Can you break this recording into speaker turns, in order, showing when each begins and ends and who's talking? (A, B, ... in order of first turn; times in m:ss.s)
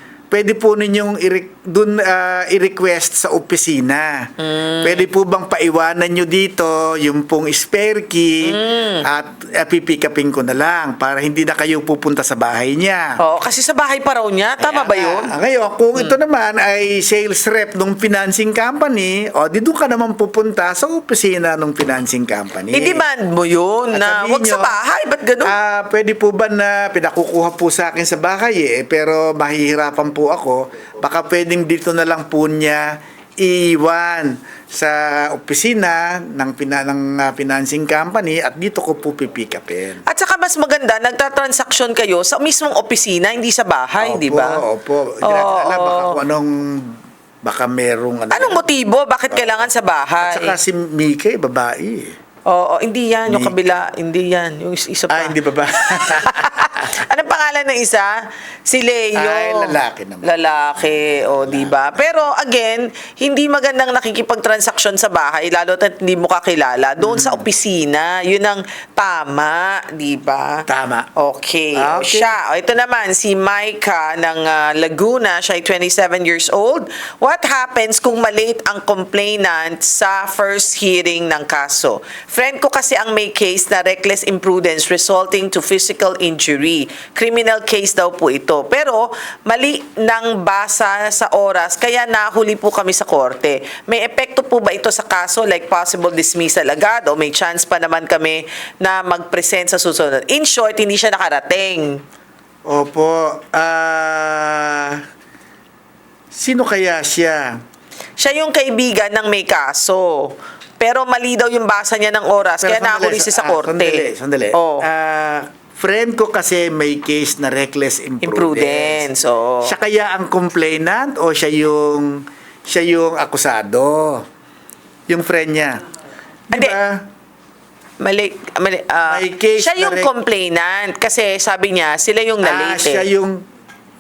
0:00.3-0:13.2 A
0:04.4-0:05.1 B
0:08.4-0:09.0 B
0:13.2-0:15.3 B
0:14.6-0:23.1 A
0:22.7-0:25.6 B
0:23.9-0:24.8 A
0:25.4-0:40.0 A
0:40.1-0:44.6 B
0:44.0-0:48.6 A
0:45.2-0:46.2 B
0:48.3-0:50.6 B
0:50.2-0:52.2 A
0:52.5-1:10.6 B
0:53.3-0:53.6 A
0:55.1-0:56.9 A
0:59.2-1:02.2 A
1:07.0-1:07.4 A
1:10.7-1:11.1 A
1:11.2-1:42.0 B
1:11.8-1:12.4 A
1:42.7-1:45.0 A
1:46.3-1:47.6 A
1:48.2-1:54.9 B
1:52.6-1:59.1 A
1:58.2-1:59.7 B
1:59.6-2:04.2 A
2:05.1-2:05.8 A
2:06.5-2:07.0 A
2:08.0-2:13.1 B
2:09.0-2:10.1 A
2:12.4-2:13.4 A